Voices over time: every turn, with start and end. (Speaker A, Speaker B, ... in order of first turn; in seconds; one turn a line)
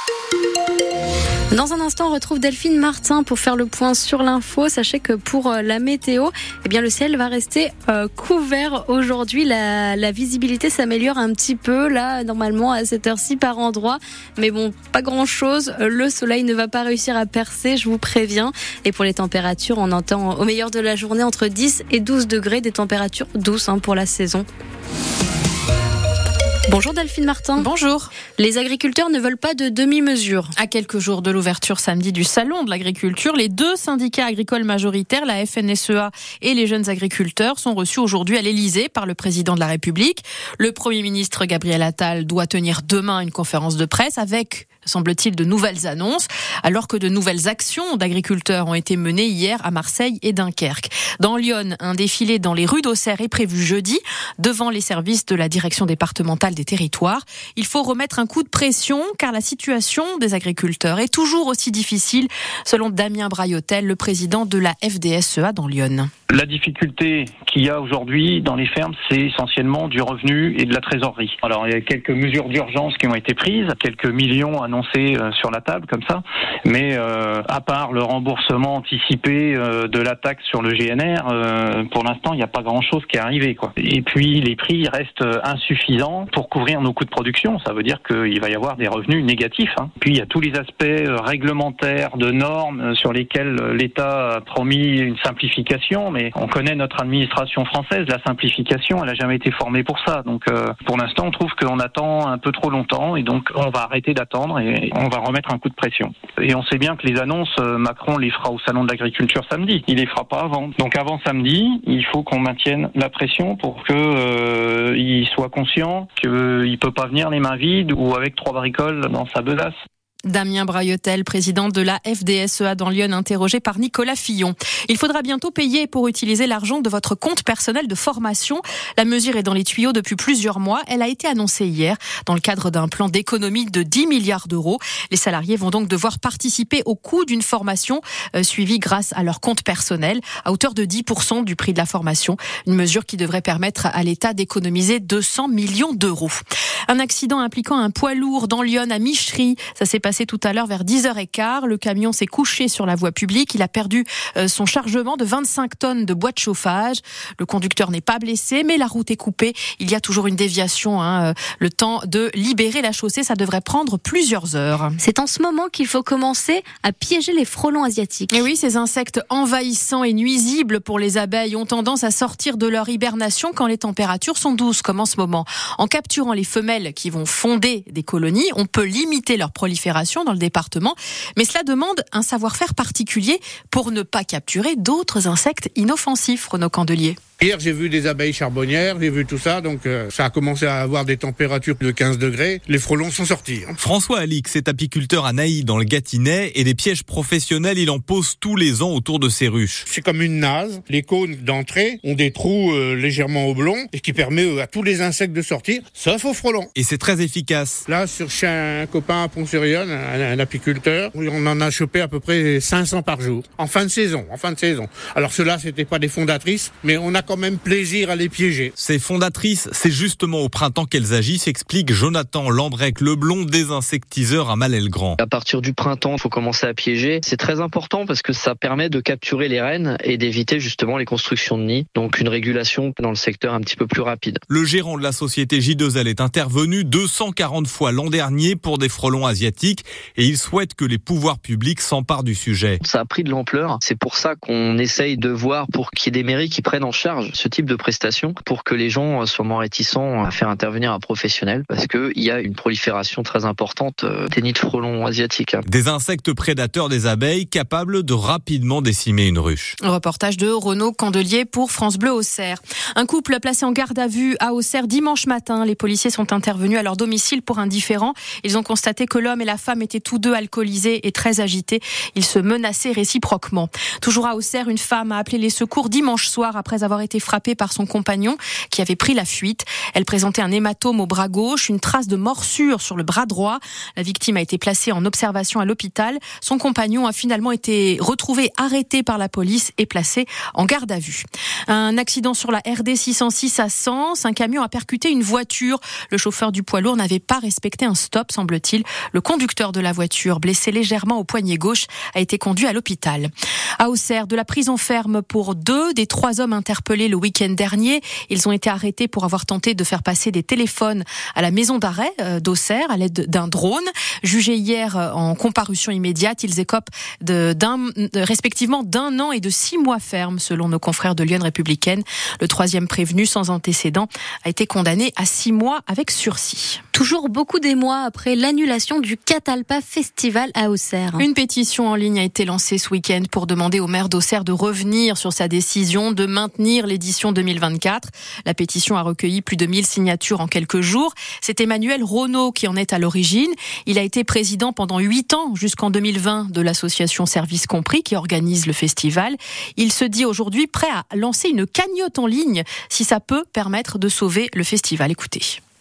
Speaker A: 1.5-24.5
Speaker A: 26.7-27.7
Speaker B: 27.6-28.1
Speaker A: 28.3-30.5
Speaker B: 30.6-66.1
Speaker C: 66.3-119.7
Speaker B: 120.3-165.0
Speaker A: 165.0-168.4
Speaker B: 168.3-187.2
Speaker D: 187.4-193.8
Speaker E: 193.8-199.8
Speaker D: 199.8-206.7
Speaker E: 206.7-207.8
Speaker D: 207.8-218.7
Speaker E: 218.8-225.2
Speaker F: 225.2-234.4
Speaker E: 234.5-242.8
Speaker F: 242.8-255.6
Speaker E: 255.7-259.8
Speaker B: 259.8-326.8
Speaker A: 326.9-331.2
Speaker B: 331.2-355.6